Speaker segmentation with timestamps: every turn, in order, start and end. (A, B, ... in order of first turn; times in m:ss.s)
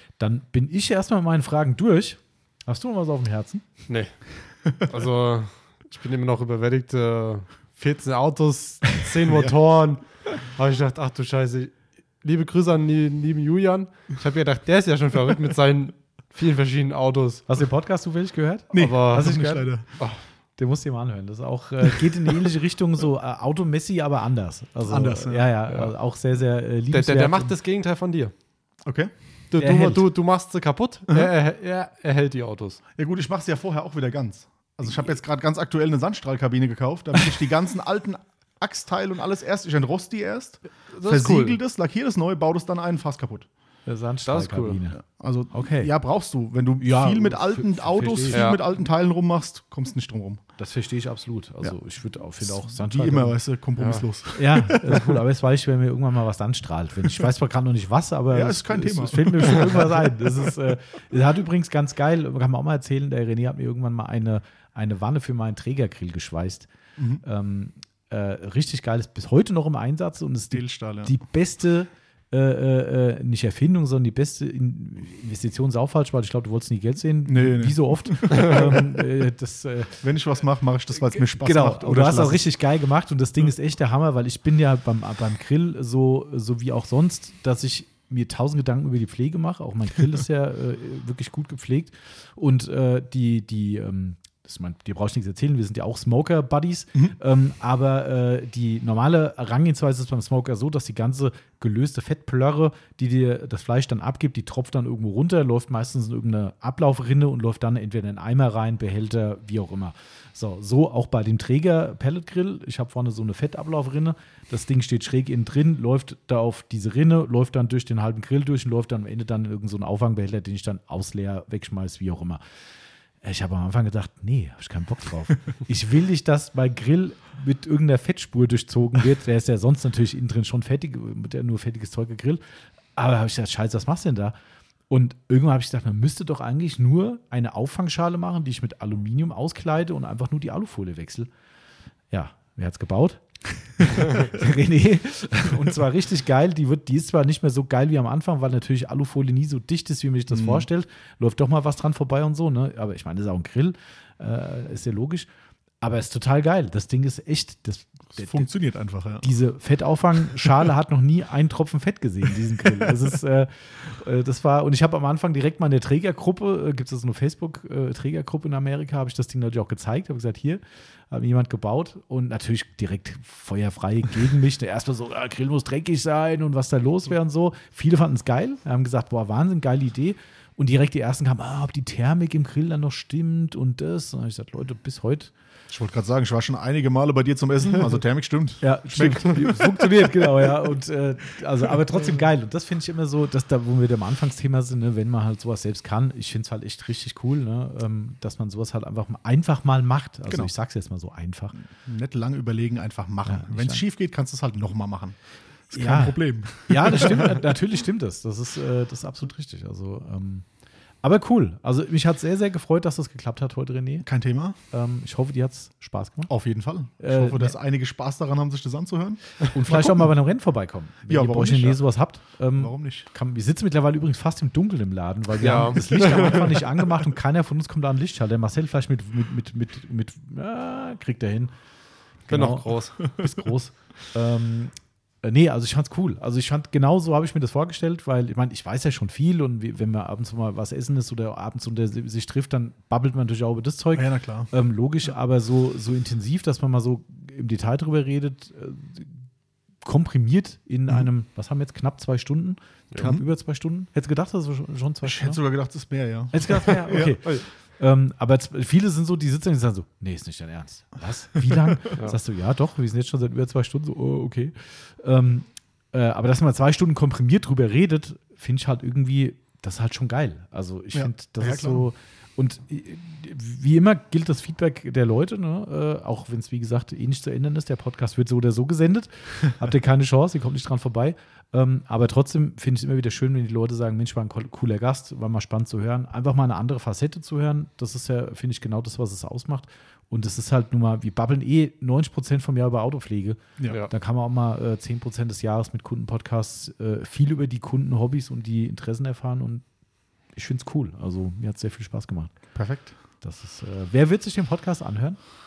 0:00.2-0:03.8 A
0:03.9-0:17.6 B
0:17.5-0:20.0 A
0:18.7-0:19.8 C
0:18.8-0:19.4 B
0:20.6-0:27.5 A
0:24.8-0:25.6 C
0:26.9-0:28.3 B
0:28.8-0:29.1 C
0:29.5-0:32.8 B
0:29.6-0:30.0 A
0:33.0-0:43.5 C
0:40.9-0:41.6 B
0:43.8-0:45.9 A
0:44.3-0:44.8 B
0:44.9-0:50.5 C
0:46.8-0:48.5 A
0:48.3-0:48.6 B
0:50.6-0:53.4 A
0:52.4-0:55.0 C
0:53.8-0:54.1 B
0:54.3-1:06.7 A
0:58.3-1:00.1 C
1:07.0-1:07.2 C
1:07.2-1:20.1 A
1:10.5-1:11.1 C
1:17.2-1:18.8 C
1:20.0-1:22.5 C
1:21.0-2:02.4 A
2:03.2-2:12.4 A
2:13.0-2:14.3 A
2:14.9-2:21.3 A
2:22.1-2:35.3 A
2:30.3-2:30.6 C
2:35.8-2:38.5 A
2:38.2-2:39.3 C
2:39.2-3:05.3 A
3:05.7-3:10.3 C
3:08.6-3:21.6 A
3:21.6-3:27.4 C
3:23.2-3:23.8 A
3:25.7-3:30.5 A
3:31.0-3:34.1 A
3:34.0-3:34.6 C
3:34.6-3:36.3 A
3:36.3-3:40.1 C
3:37.0-3:37.5 A
3:39.5-3:51.5 A
3:41.1-3:41.8 C
3:42.5-3:43.1 C
3:45.4-3:46.7 B
3:52.2-4:09.3 A
3:52.3-3:53.0 B
4:03.9-4:04.5 C
4:09.8-4:15.4 A
4:13.0-4:13.2 C
4:15.0-4:17.2 C
4:16.3-4:59.6 A
4:30.9-4:31.9 C
5:00.3-5:05.2 A
5:02.5-5:02.9 C